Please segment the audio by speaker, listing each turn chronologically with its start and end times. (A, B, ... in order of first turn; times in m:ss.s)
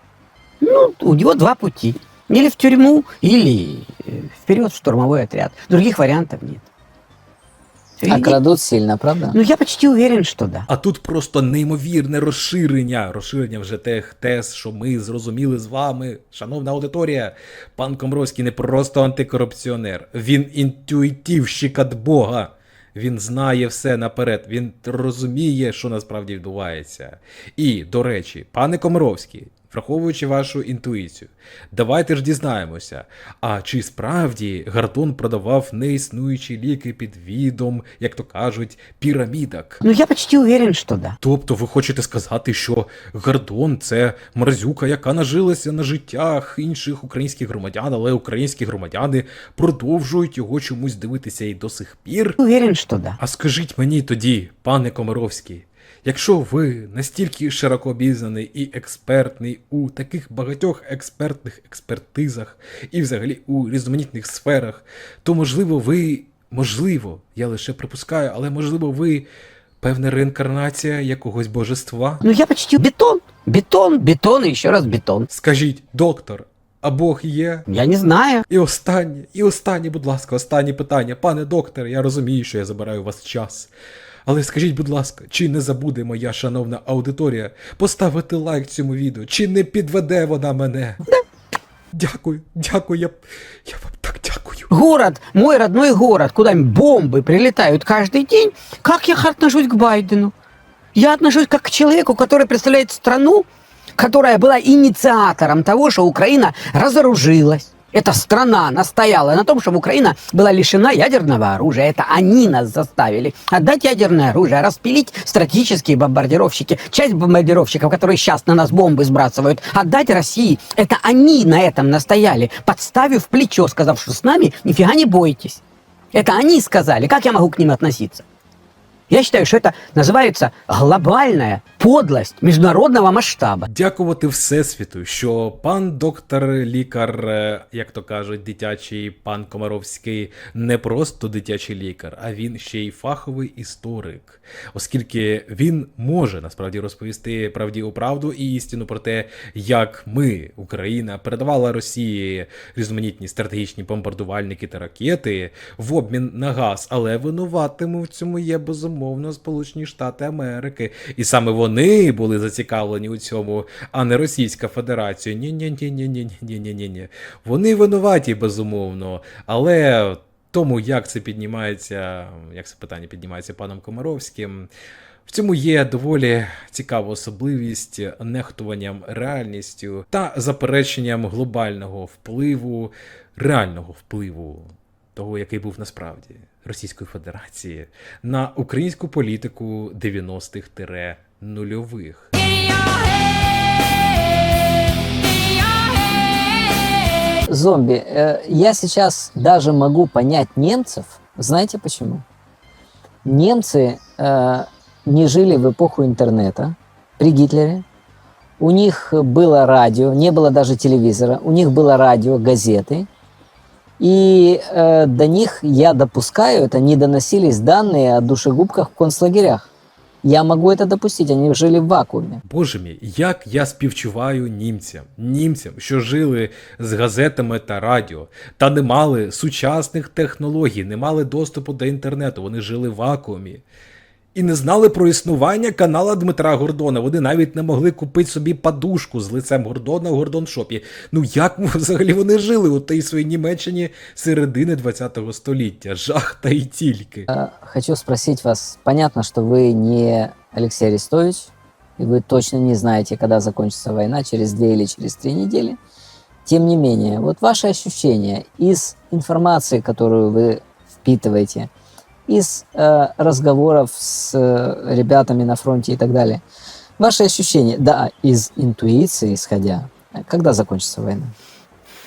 0:00.6-0:06.7 A
0:08.0-0:08.4 A
0:08.1-0:09.4 B
0:09.3-0:10.7 A
0:10.7-0:39.8 C
0:39.8-0:41.2 A
0:41.2-0:52.4 C
0:52.4-0:53.2 A
0:53.2-1:09.3 C
1:09.8-1:12.2 C
1:12.2-1:15.3 A
1:15.3-1:17.7 C
1:17.7-1:18.5 A
1:18.5-1:23.7 C
1:24.3-1:31.0 C
1:31.9-1:34.7 C
1:34.7-1:40.3 A
1:41.0-2:05.6 A
2:06.1-2:08.3 A
2:09.1-2:13.7 A
2:13.7-2:54.7 C
2:55.3-3:12.3 C
3:17.5-3:22.2 B
3:23.2-3:27.8 B
3:28.6-3:33.1 B
3:34.0-3:39.7 B
3:40.2-3:42.4 B
3:42.5-3:53.6 C
3:54.4-4:07.3 C
4:07.3-4:15.8 B
4:16.4-4:21.7 B
4:22.3-4:26.4 B
4:27.0-4:31.3 B